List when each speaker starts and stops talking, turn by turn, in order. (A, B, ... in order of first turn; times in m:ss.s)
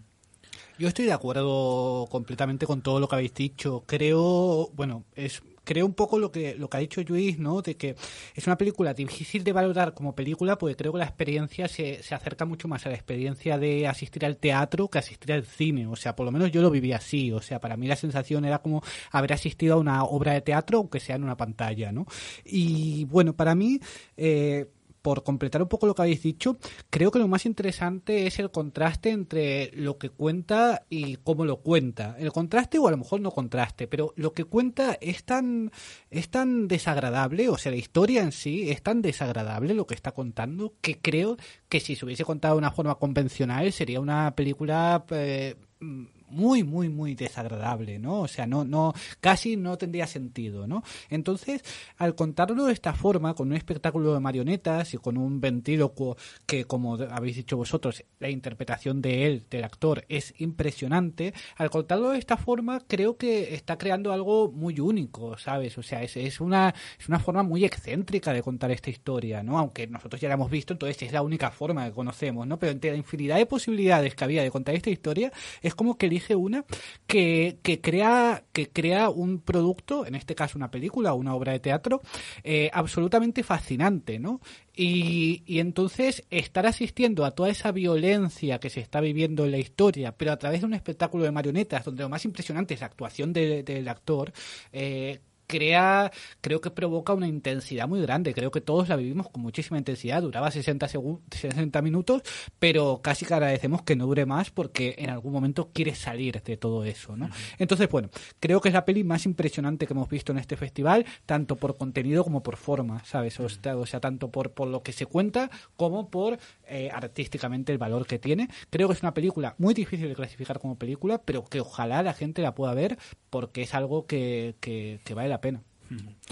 0:00.8-2:05.6 A